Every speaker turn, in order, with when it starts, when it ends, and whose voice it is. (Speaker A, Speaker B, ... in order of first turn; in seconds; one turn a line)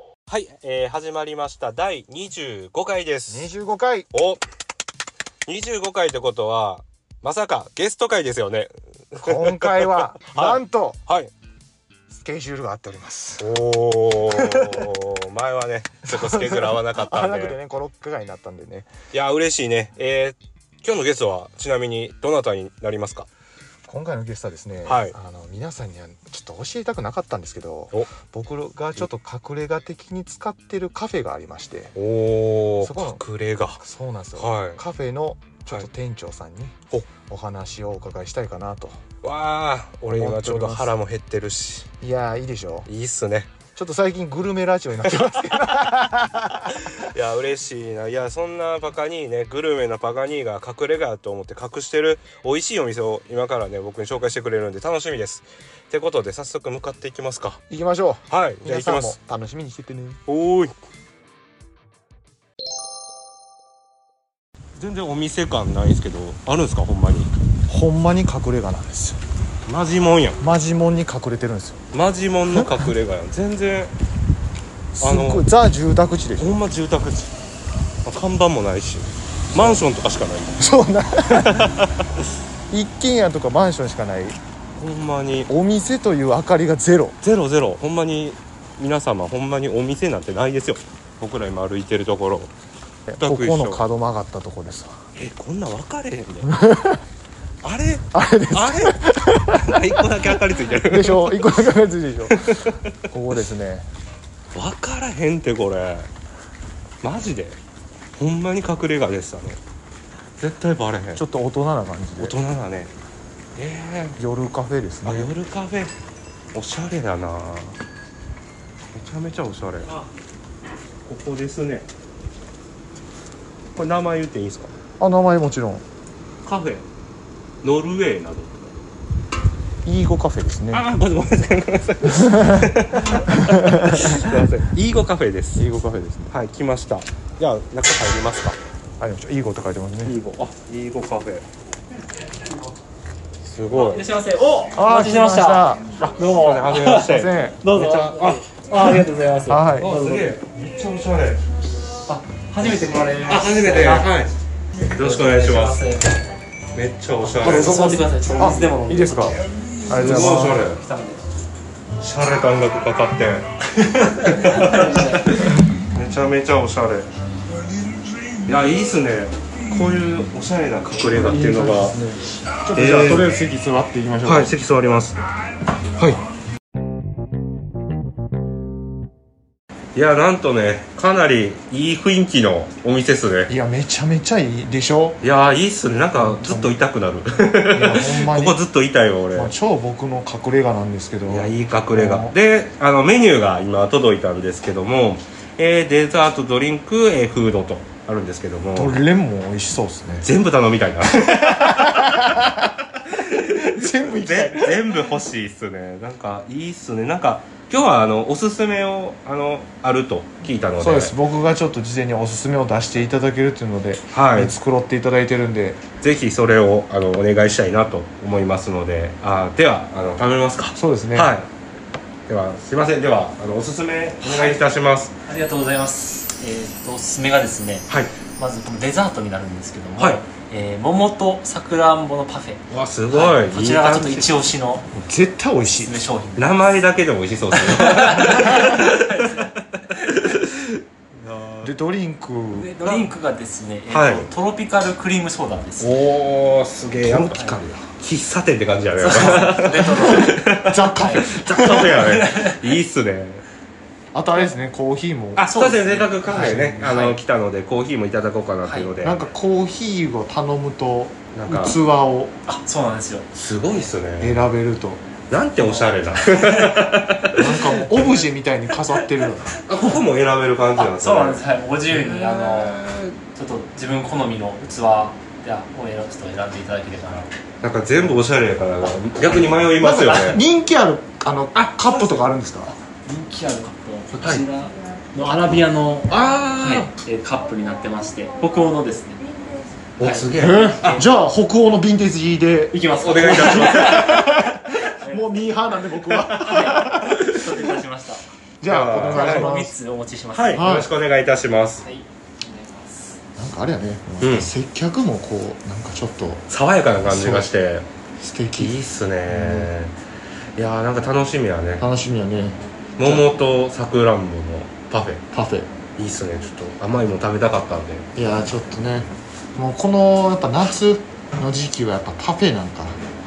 Speaker A: 0.3-3.5
Speaker B: 3.3-4.1
Speaker A: 4.1-4.4
Speaker A: 5.5-11.3
Speaker B: 9.2-11.0
Speaker B: 12.2-13.5
Speaker A: 13.4-17.6
Speaker B: 14.3-14.9
Speaker B: 16.1-18.9
Speaker A: 19.1-23.3
Speaker B: 23.9-31.9
Speaker A: 24.9-25.1
Speaker A: 31.9-33.8
Speaker B: 32.8-33.2
Speaker B: 33.8-39.0
Speaker A: 34.4-34.8
Speaker A: 39.2-41.9
Speaker B: 40.1-40.9
Speaker B: 42.0-42.9
Speaker A: 42.9-43.5
Speaker B: 43.8-46.9
Speaker A: 46.7-57.6
Speaker B: 57.7-60.2
Speaker A: 58.3-59.2
Speaker A: 60.3-60.7
Speaker A: 64.8-67.3
Speaker B: 67.7-69.2
Speaker A: 69.7-70.4
Speaker B: 70.4-71.8
Speaker A: 71.9-73.9
Speaker B: 72.5-72.8
Speaker B: 75.0-76.6
Speaker A: 75.0-75.5
Speaker A: 76.4-77.3
Speaker A: 78.0-80.7
Speaker B: 79.5-79.8
Speaker B: 80.6-81.8
Speaker A: 81.3-82.1
Speaker B: 82.7-84.4
Speaker A: 84.8-85.5
Speaker B: 85.5-87.2
Speaker A: 87.2-92.5
Speaker B: 93.1-95.0
Speaker A: 93.2-93.8
Speaker A: 95.2-96.5
Speaker B: 96.5-97.0
Speaker A: 97.6-99.0
Speaker B: 98.1-100.3
Speaker A: 99.7-101.5
Speaker B: 100.8-102.6
Speaker A: 102.3-103.0
Speaker B: 103.1-103.9
Speaker A: 104.5-106.1
Speaker A: 107.0-107.6
Speaker A: 108.2-109.6
Speaker A: 110.4-111.2
Speaker B: 111.2-112.4
Speaker A: 112.2-112.9
Speaker A: 113.6-114.2
Speaker B: 114.2-115.3
Speaker A: 115.0-115.9
Speaker A: 116.5-117.8
Speaker A: 118.9-120.0
Speaker A: 121.1-121.9
Speaker A: 123.8-124.7
Speaker B: 125.0-125.8
Speaker A: 126.4-126.9
Speaker A: 127.6-128.9
Speaker B: 129.8-130.8
Speaker A: 130.7-135.7
Speaker B: 132.2-132.7
Speaker B: 133.4-134.3
Speaker B: 135.6-136.3
Speaker A: 136.3-138.6
Speaker B: 139.0-140.2
Speaker A: 140.1-141.4
Speaker A: 143.4-144.0
Speaker C: 143.7-147.1
Speaker B: 144.7-145.9
Speaker A: 146.0-149.1
Speaker B: 146.9-147.6
Speaker C: 147.6-150.3
Speaker B: 149.5-149.9
Speaker A: 149.8-151.4
Speaker C: 152.1-154.1
Speaker A: 152.6-154.3
Speaker A: 154.9-155.9
Speaker C: 154.9-156.2
Speaker A: 156.7-158.0
Speaker C: 157.3-159.4
Speaker B: 157.4-160.7
Speaker A: 159.9-160.8
Speaker C: 160.0-161.2
Speaker A: 162.0-167.1
Speaker C: 164.1-165.5
Speaker A: 168.4-172.0
Speaker B: 171.1-174.6
Speaker A: 172.7-173.4
Speaker A: 174.2-175.3
Speaker A: 176.0-176.2
Speaker A: 179.9-183.5
Speaker B: 183.5-185.2
Speaker A: 185.2-189.5
Speaker B: 186.2-186.8
Speaker B: 187.7-188.6
Speaker B: 189.3-192.3
Speaker A: 191.3-199.0
Speaker B: 198.8-200.3
Speaker A: 200.2-202.2
Speaker B: 201.1-202.7
Speaker A: 203.2-211.1
Speaker B: 203.3-205.1
Speaker B: 210.8-215.8
Speaker A: 214.1-214.6
Speaker A: 216.0-221.5
Speaker B: 220.8-221.3
Speaker A: 222.3-225.1
Speaker C: 224.2-224.6
Speaker C: 225.2-234.9
Speaker A: 232.7-234.3
Speaker B: 234.9-235.9
Speaker C: 235.6-236.6
Speaker A: 236.4-239.3
Speaker C: 237.6-239.6
Speaker A: 239.9-241.7
Speaker B: 241.6-242.8
Speaker C: 242.6-245.9
Speaker A: 243.9-244.3
Speaker A: 245.8-253.4
Speaker C: 247.1-247.6
Speaker C: 249.0-252.6
Speaker B: 250.0-251.8
Speaker B: 254.1-255.6
Speaker A: 255.4-259.2
Speaker C: 255.5-257.1
Speaker B: 256.3-257.1
Speaker B: 259.0-262.4
Speaker A: 261.3-261.8
Speaker C: 262.5-263.3
Speaker A: 263.3-264.4
Speaker B: 264.2-265.0
Speaker A: 265.3-268.1
Speaker C: 265.7-267.1
Speaker B: 267.3-269.6
Speaker C: 267.7-268.1
Speaker A: 269.7-273.2
Speaker C: 270.8-277.3
Speaker A: 277.6-280.4
Speaker B: 279.8-282.7
Speaker A: 281.5-282.3
Speaker C: 283.0-289.2
Speaker A: 286.1-286.9
Speaker A: 290.0-291.0
Speaker C: 290.0-291.1
Speaker B: 290.4-292.8
Speaker C: 292.7-298.2
Speaker A: 293.0-294.2
Speaker B: 293.9-297.4
Speaker B: 298.6-299.8
Speaker A: 298.7-299.5
Speaker C: 299.1-300.7
Speaker A: 300.3-301.8
Speaker B: 300.6-300.9
Speaker C: 301.8-303.2
Speaker B: 303.4-306.4
Speaker A: 304.2-304.5
Speaker A: 306.5-307.9
Speaker B: 307.1-307.5
Speaker B: 308.2-308.8
Speaker A: 308.6-309.9
Speaker B: 309.3-309.7
Speaker A: 310.6-311.9
Speaker B: 311.8-313.3
Speaker A: 313.0-315.2
Speaker B: 315.3-315.7
Speaker A: 316.0-318.1
Speaker B: 318.2-323.0